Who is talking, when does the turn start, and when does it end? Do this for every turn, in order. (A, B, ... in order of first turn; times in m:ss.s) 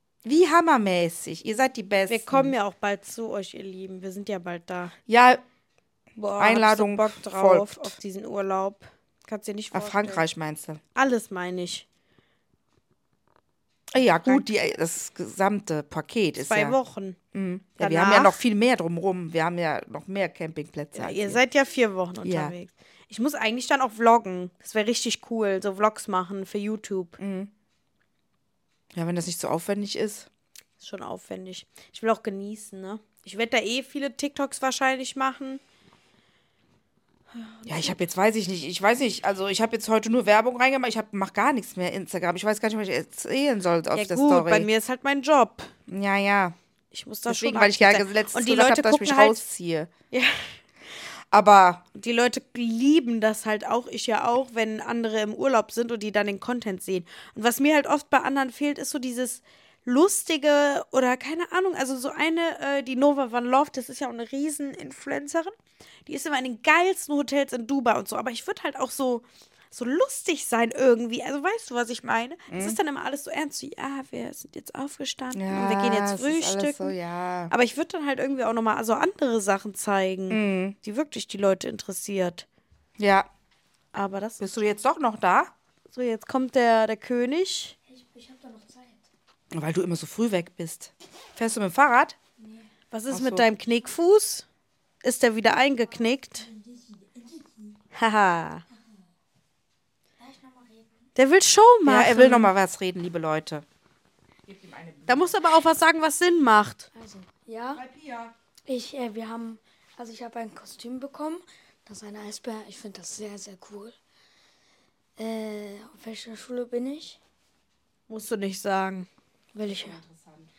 0:00.2-0:02.5 A
0:02.1-0:04.9 B
0:05.1-0:05.4 A
0:06.2-0:10.2 B
0:06.4-0:08.0 A
0:09.7-0:10.8 A
0:10.9-0:11.8 B
0:13.9-0:16.7 A
0:14.0-0:14.4 B
0:16.4-0:17.2 B
0:17.3-0:21.4 A
0:17.8-0:18.4 B
0:20.9-0:27.2 B
0:22.2-0:22.5 A
0:27.2-0:27.5 A
0:28.9-0:30.3 A
0:30.8-0:35.6 B
0:37.3-0:38.0 B
0:37.6-0:44.7 A
0:43.9-0:45.7 B
0:45.9-0:46.5 A
0:46.9-0:49.4 B
0:47.3-0:49.9 A
0:50.1-0:50.5 B
0:51.3-0:51.8 A
0:51.9-1:05.5 B
1:06.0-1:16.9 B
1:12.5-1:12.8 A
1:15.3-1:17.5 A
1:17.5-1:22.4 B
1:20.3-1:20.8 A
1:23.0-1:23.3 A
1:23.9-1:24.4 B
1:24.4-1:25.5 A
1:25.9-1:27.8 B
1:27.8-1:29.0 C
1:29.5-1:32.2 A
1:32.9-1:34.4 B
1:33.1-1:33.5 A
1:35.0-1:36.5 B
1:36.5-1:37.7 C
1:37.9-1:38.6 B
1:40.2-1:41.0 C
1:41.2-1:42.5 B
1:41.8-1:43.6 A
1:44.5-1:45.4 A
1:45.1-1:46.9 B
1:46.9-1:47.8 C
1:47.7-1:48.3 A
1:48.6-1:54.0 C
1:55.2-1:57.2 C
1:58.1-1:59.1 B
1:59.5-2:00.0 C
1:59.6-2:00.5 A